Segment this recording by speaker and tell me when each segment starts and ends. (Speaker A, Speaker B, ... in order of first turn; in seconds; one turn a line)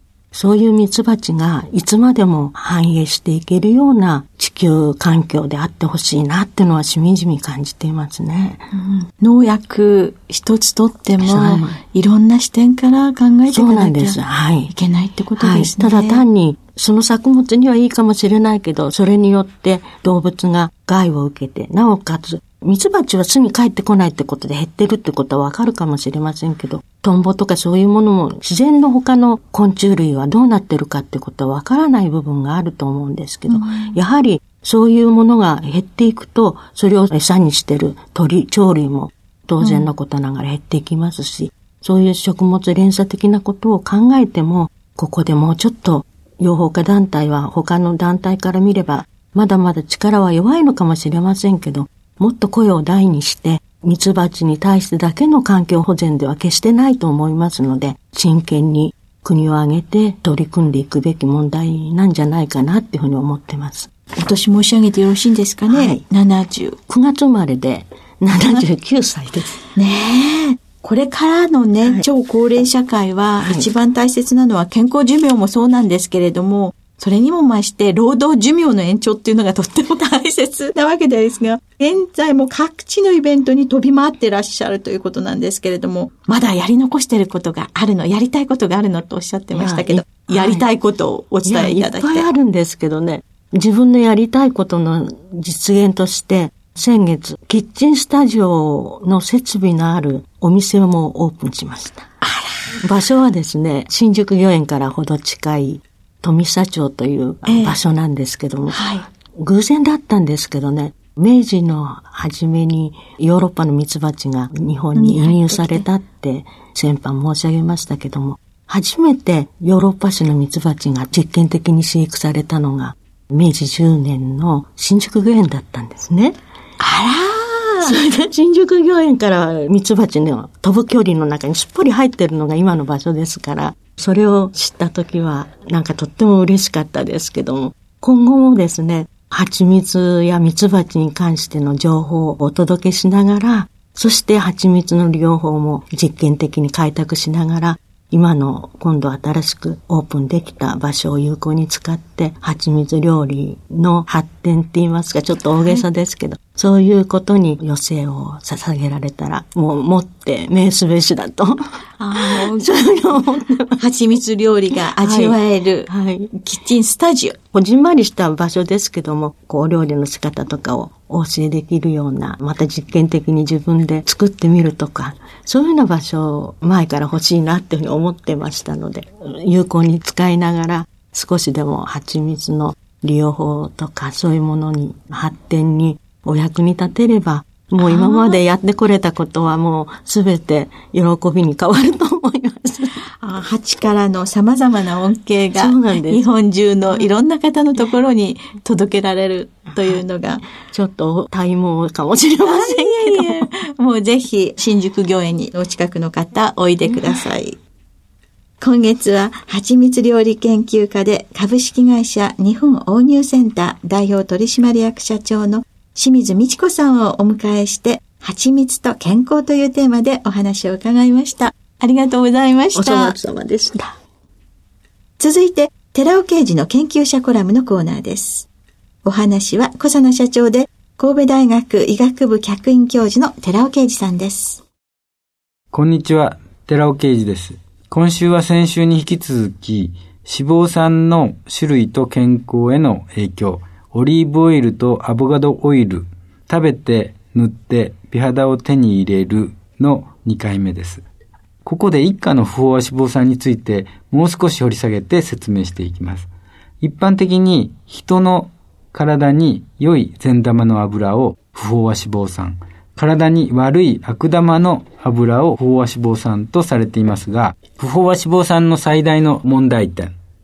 Speaker A: 0.3-8.7
Speaker B: 8.7-16.2
Speaker A: 11.2-11.8
Speaker A: 13.5-14.7
Speaker A: 15.4-63.9
Speaker B: 33.5-34.0
Speaker B: 39.6-39.9
Speaker B: 64.2-66.8
Speaker A: 65.7-66.0
Speaker A: 66.9-69.6
Speaker B: 69.7-92.3
Speaker A: 73.4-73.7
Speaker A: 89.5-90.7
Speaker A: 91.4-102.1
Speaker B: 102.2-102.7
Speaker A: 102.8-126.4
Speaker B: 107.4-107.8
Speaker B: 108.7-109.0
Speaker B: 114.9-115.9
Speaker B: 126.8-128.0
Speaker A: 127.8-163.8
Speaker B: 155.6-155.8
Speaker B: 162.0-162.8
Speaker B: 163.8-167.3
Speaker A: 164.8-166.3
Speaker A: 167.5-193.0
Speaker B: 187.8-188.4
Speaker B: 193.0-200.4
Speaker A: 195.5-196.2
Speaker A: 199.7-203.5
Speaker B: 202.4-207.6
Speaker A: 206.8-207.2
Speaker B: 208.6-223.2
Speaker A: 222.7-223.9
Speaker B: 225.2-228.5
Speaker B: 229.0-234.6
Speaker C: 235.7-251.0
Speaker C: 251.6-256.3
Speaker C: 256.8-270.1